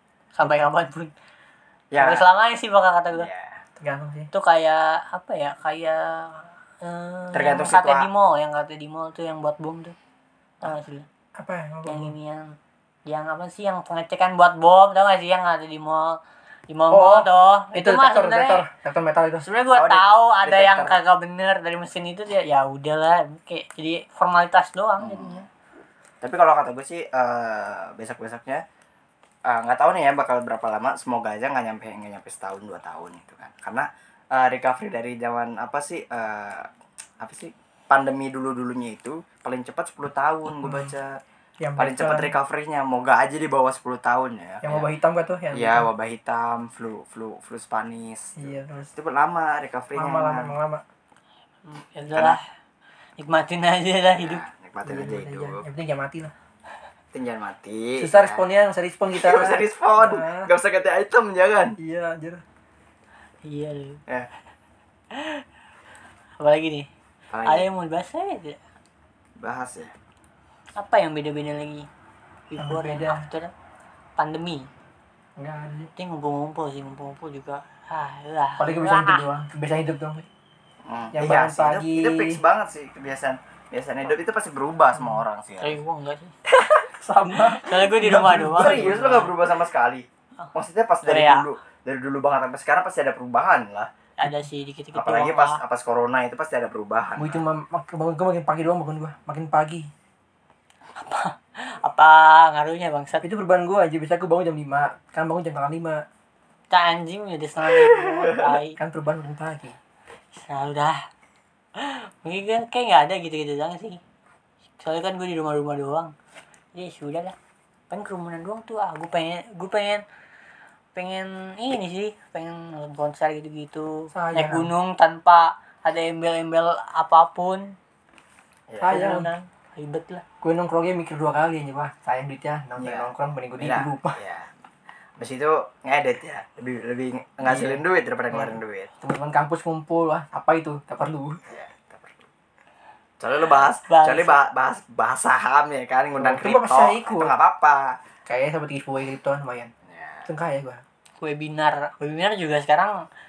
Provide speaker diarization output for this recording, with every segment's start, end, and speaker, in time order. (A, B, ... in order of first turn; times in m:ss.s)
0:00.4-0:01.1 A
0:01.9-0:02.2 B
0:02.0-0:03.3 A
0:03.1-0:03.6 B
0:03.8-0:04.3 C
0:04.3-0:10.0 A
0:07.3-0:08.1 B
0:10.6-0:11.1 A
0:11.4-0:12.1 C
0:11.9-0:18.6 A
0:16.9-0:19.5 C
0:19.4-0:25.5 A
0:19.7-0:21.0 B
0:25.0-0:25.4 B
0:26.2-0:28.6 B
0:29.5-0:36.7 B
0:37.2-0:41.2 B
0:40.6-0:40.9 C
0:41.6-0:42.3 C
0:41.8-0:44.9 B
0:44.6-0:45.9 C
0:45.5-0:50.6 B
0:48.4-0:48.9 C
0:50.0-0:50.8 C
0:51.6-0:52.4 A
0:53.2-0:54.4 A
0:54.2-0:55.6 B
0:54.8-0:56.3 C
0:57.1-0:58.5 B
0:58.0-1:00.5 C
0:59.1-1:01.8 B
1:01.8-1:02.4 C
1:03.4-1:04.0 A
1:05.1-1:05.4 A
1:06.4-1:06.9 A
1:07.3-1:07.7 B
1:07.4-1:08.6 A
1:09.4-1:09.9 B
1:10.8-1:11.9 A
1:12.5-1:13.5 A
1:12.6-1:13.3 C
1:14.2-1:14.7 A
1:15.4-1:15.9 C
1:16.0-1:19.2 A
1:18.6-1:20.3 C
1:20.8-1:25.8 B
1:21.1-1:22.4 C
1:25.6-1:26.4 A
1:26.5-1:29.2 C
1:27.5-1:29.3 A
1:28.5-1:33.9 B
1:31.0-1:31.5 A
1:34.2-1:35.6 A
1:35.0-1:37.4 B
1:37.2-1:39.9 C
1:41.0-1:43.3 A
1:43.2-1:46.0 C
1:46.7-1:48.8 A
1:47.7-1:48.5 B
1:48.8-1:49.8 C
1:50.3-1:51.0 A
1:51.8-1:54.0 A
1:54.8-1:56.1 A
1:56.7-1:57.4 A
1:57.9-2:00.0 A
2:01.0-2:07.8 A
2:04.1-2:04.7 C
2:08.7-2:09.2 B
2:08.8-2:09.3 C
2:08.9-2:10.2 A
2:10.4-2:14.2 C
2:12.8-2:14.5 B
2:15.2-2:18.9 B
2:17.4-2:21.4 C
2:21.5-2:22.3 B
2:23.2-2:28.0 B
2:23.8-2:24.4 A
2:26.2-2:27.3 C
2:28.3-2:29.7 C
2:29.8-2:30.3 B
2:30.3-2:30.8 C
2:31.2-2:33.0 A